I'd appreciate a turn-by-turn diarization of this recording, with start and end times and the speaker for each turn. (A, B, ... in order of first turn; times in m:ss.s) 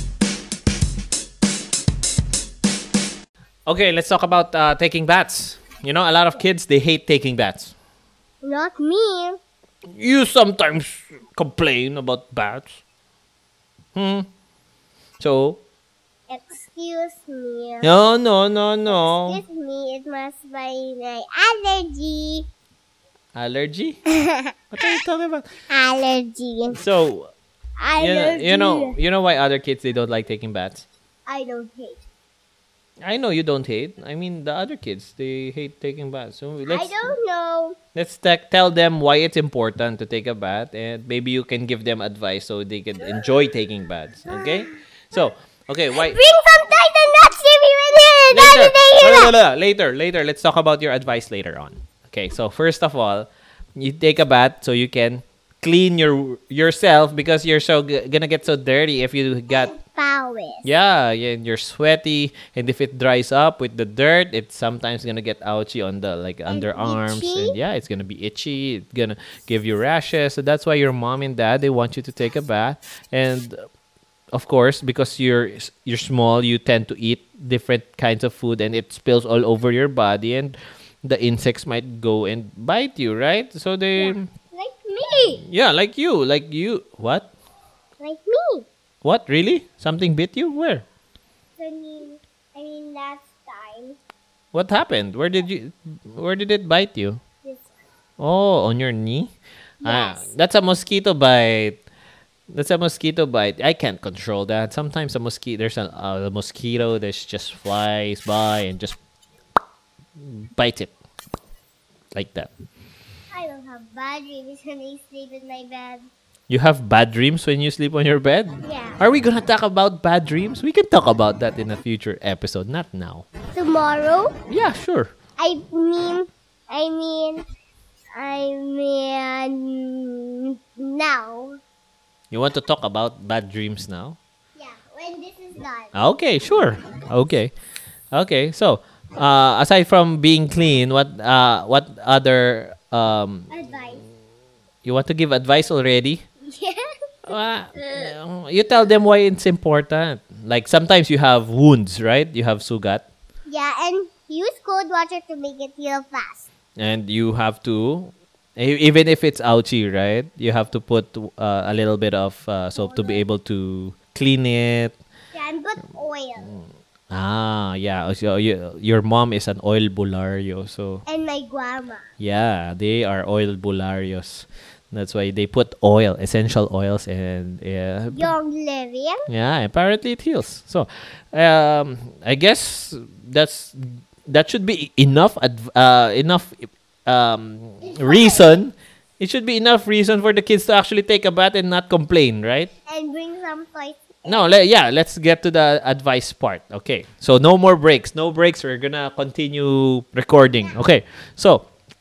0:03.7-0:07.7 A
0:08.4-0:09.4 B
0:09.9-0:12.8 A
0:13.9-0:14.3 A
0:15.2-0:15.6 A
0:16.3-0:17.9 B
0:17.8-0:19.4 A
0:18.8-0:22.5 B
0:23.3-0:24.0 A
0:24.1-0:25.0 B
0:24.7-0:25.5 A
0:25.7-0:26.8 B
0:26.7-0:27.3 A
0:27.8-0:29.0 B
0:28.0-0:30.8 A
0:31.2-0:32.0 B
0:33.0-0:37.1 A
0:36.7-0:37.8 B
0:37.9-0:46.2 A
0:44.3-0:44.7 B
0:45.9-0:49.3 B
0:48.3-0:59.7 A
0:59.5-1:00.7 B
1:00.6-1:13.6 A
1:06.5-1:07.6 B
1:14.3-1:24.3 A
1:24.0-1:25.4 B
1:25.4-1:27.3 A
1:28.0-1:28.7 B
1:29.0-1:30.8 A
1:31.6-1:34.0 B
1:34.5-1:37.2 A
1:38.2-1:41.8 A
1:39.8-1:40.3 B
1:42.5-1:49.0 A
1:50.2-1:50.9 A
1:52.1-1:52.5 A
1:53.3-1:56.1 B
1:56.5-2:03.3 A
1:58.6-1:59.0 B
2:03.5-2:04.3 B
2:04.5-2:05.1 A
2:05.4-2:07.4 B
2:08.2-2:11.5 B
2:12.3-2:14.2 A
2:14.6-2:16.0 B
2:15.9-2:17.5 A
2:18.1-2:23.5 A
2:23.5-2:24.0 B
2:24.8-2:26.2 A
2:26.4-2:26.8 B
2:27.3-2:33.0 A
2:33.5-2:36.5 B
2:36.8-2:45.0 A
2:42.8-2:43.2 B
2:45.3-2:46.6 B
2:46.4-2:51.0 A
2:51.0-2:52.1 B
2:52.2-2:58.3 A
2:58.1-2:59.2 B
2:59.3-3:12.7 A
3:07.8-3:08.6 B
3:12.9-3:14.5 B
3:14.3-3:21.7 A